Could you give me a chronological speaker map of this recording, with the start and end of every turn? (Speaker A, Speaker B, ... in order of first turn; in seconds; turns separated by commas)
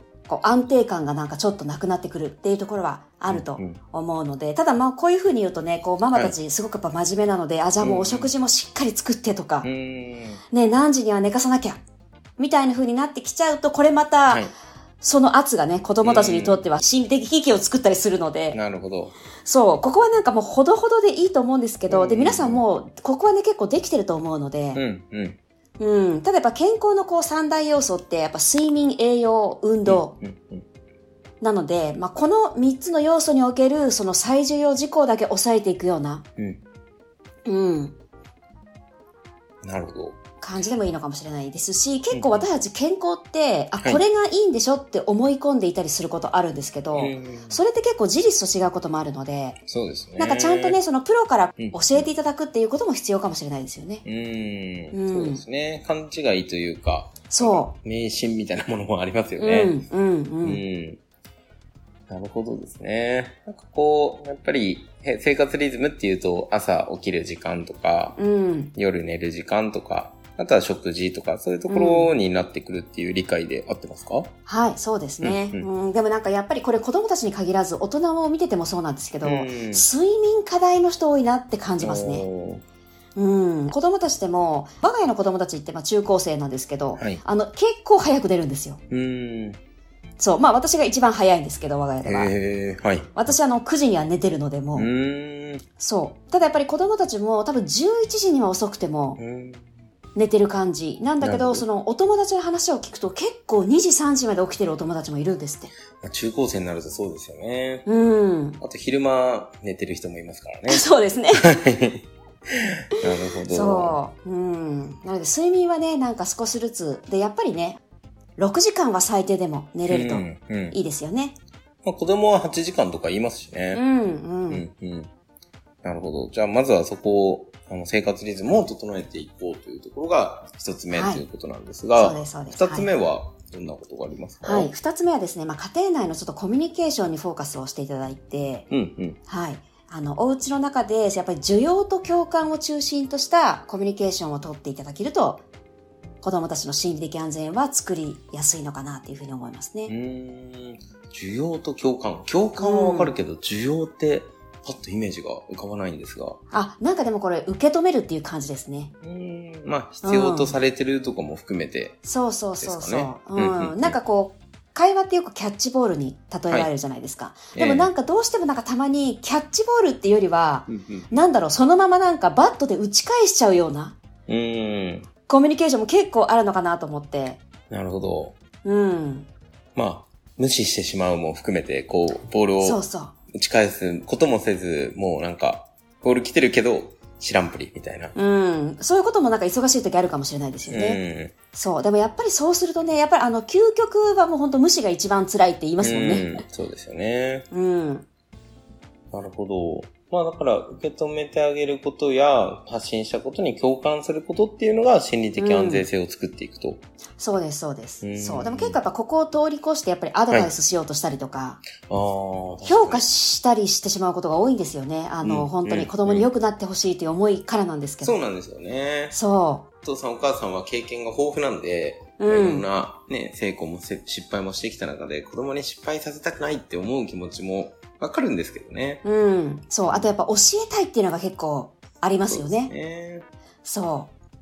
Speaker A: 0.3-9.7, Speaker B: 3.3-3.8, Speaker B: 7.8-8.3, Speaker B: 9.6-10.4, Speaker A: 10.5-11.8, Speaker A: 12.4-14.5, Speaker A: 15.0-18.6, Speaker B: 16.0-16.6, Speaker B: 18.5-19.1, Speaker A: 19.4-24.8, Speaker B: 21.9-22.6, Speaker B: 24.7-25.4, Speaker A: 25.8-30.1, Speaker B: 29.9-30.6, Speaker A: 31.4-36.2, Speaker A: 37.5-38.0, Speaker B: 39.6-40.2, Speaker A: 40.4-49.6, Speaker B: 42.1-42.5, Speaker B: 46.9-47.6, Speaker B: 49.7-50.8, Speaker A: 50.2-54.0, Speaker B: 51.6-52.1, Speaker B: 54.0-59.7, Speaker A: 54.9-55.4, Speaker A: 57.3-57.7, Speaker A: 59.4-60.6, Speaker B: 60.4-61.0, Speaker B: 62.1-68.2, Speaker A: 68.2-68.7, Speaker B: 68.7-74.3, Speaker A: 71.7-72.1, Speaker A: 74.5-82.2, Speaker B: 75.2-75.7, Speaker B: 79.2-79.8, Speaker B: 81.8-82.6, Speaker A: 83.2-88.8, Speaker B: 88.9-89.6, Speaker A: 90.2-92.3, Speaker B: 92.0-93.1, Speaker A: 93.1-94.9, Speaker B: 94.7-95.6, Speaker A: 95.8-99.2, Speaker B: 99.2-99.8, Speaker A: 100.1-105.7, Speaker B: 101.2-101.6, Speaker B: 106.0-107.9, Speaker A: 107.8-108.6, Speaker B: 108.6-114.0, Speaker A: 110.7-111.6, Speaker A: 113.5-117.8, Speaker A: 118.4-121.4, Speaker B: 119.9-120.8, Speaker B: 121.8-123.8, Speaker A: 123.7-124.7, Speaker B: 124.5-125.1, Speaker B: 125.8-134.7, Speaker A: 130.9-131.2, Speaker A: 131.9-132.9, Speaker A: 134.4-138.7, Speaker B: 138.7-139.2, Speaker A: 139.3-145.4, Speaker A: 146.2-149.9, Speaker B: 149.9-156.4, Speaker A: 152.6-153.1, Speaker A: 156.5-158.9, Speaker B: 159.0-162.0, Speaker A: 160.0-160.6, Speaker A: 162.0-174.0, Speaker B: 162.6-164.0, Speaker B: 167.5-167.9, Speaker B: 170.7-171.2, Speaker B: 174.3-175.1, Speaker A: 175.3-177.4, Speaker B: 177.7-178.3, Speaker A: 178.6-179.3, Speaker B: 179.8-182.8, Speaker A: 182.6-183.1, Speaker B: 183.3-188.1, Speaker A: 188.2-191.0, Speaker B: 190.7-191.3, Speaker A: 191.5-196.3, Speaker B: 195.8-197.5, Speaker A: 197.5-198.1, Speaker B: 199.1-206.8, Speaker A: 205.4-205.9, Speaker A: 207.2-211.6, Speaker B: 208.0-208.8, Speaker B: 211.8-213.0, Speaker A: 212.6-218.2, Speaker B: 215.2-216.3, Speaker B: 218.0-219.2, Speaker A: 219.1-219.7, Speaker B: 219.8-229.0, Speaker A: 222.2-222.7, Speaker A: 229.0-232.7, Speaker B: 232.3-233.2, Speaker A: 233.6-234.1